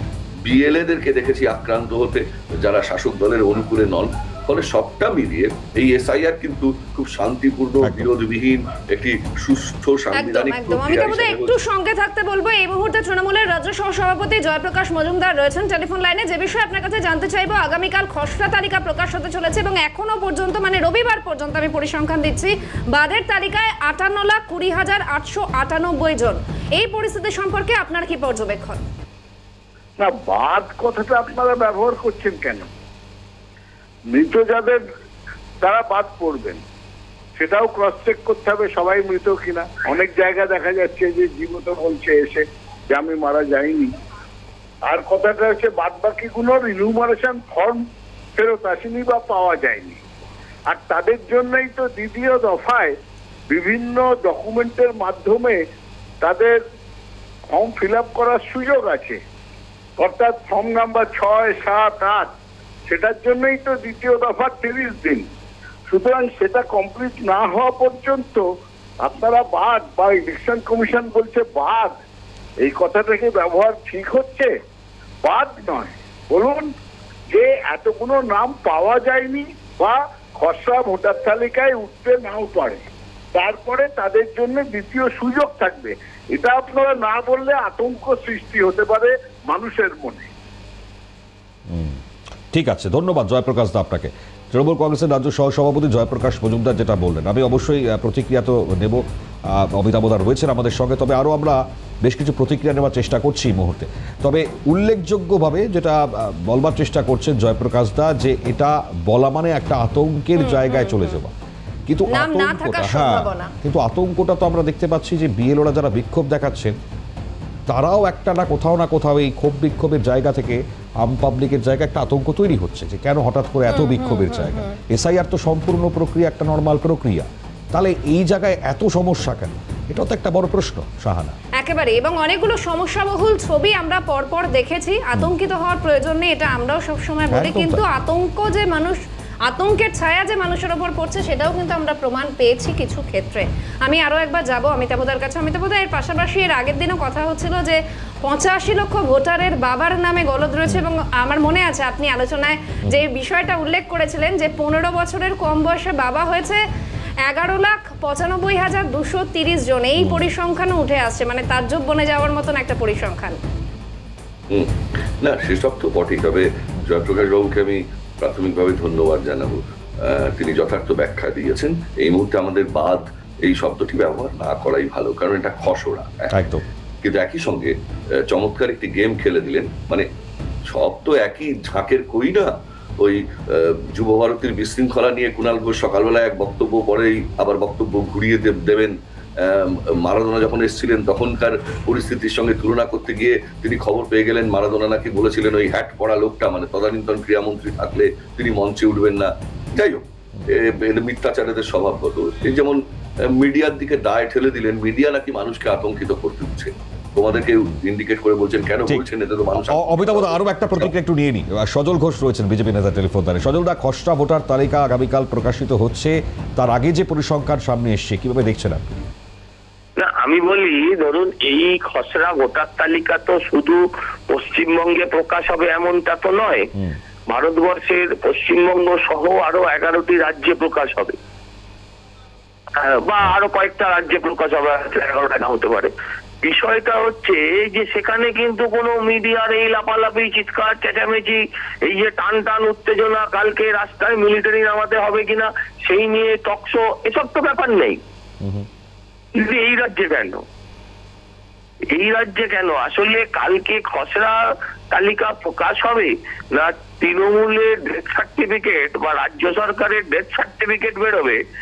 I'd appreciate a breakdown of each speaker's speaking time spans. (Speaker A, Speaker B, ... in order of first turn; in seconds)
Speaker A: 0.4-11.6, 164.5-176.4, 177.0-180.1, 180.7-210.9
Speaker B: 7.8-8.1, 91.7-92.0, 92.5-111.3, 111.9-116.8, 117.7-131.3, 137.3-137.8, 160.0-160.3, 176.3-176.6, 208.9-219.0
Speaker C: 10.1-28.8, 110.4-111.2, 112.1-113.5, 123.7-124.8, 131.6-156.6, 157.2-163.4
Speaker D: 30.0-32.7, 34.1-34.8, 35.6-36.6, 37.4-43.9, 44.9-47.8, 48.3-50.0, 50.7-52.9, 53.5-55.6, 56.2-56.6, 57.5-59.2, 60.0-62.3, 62.9-65.2, 65.9-68.4, 69.0-71.9, 72.6-74.5, 75.2-76.7, 77.3-82.8, 83.3-90.3
Speaker E: 220.0-226.7, 227.3-231.2, 232.8-248.0, 249.3-250.4, 251.9-254.3, 254.9-261.4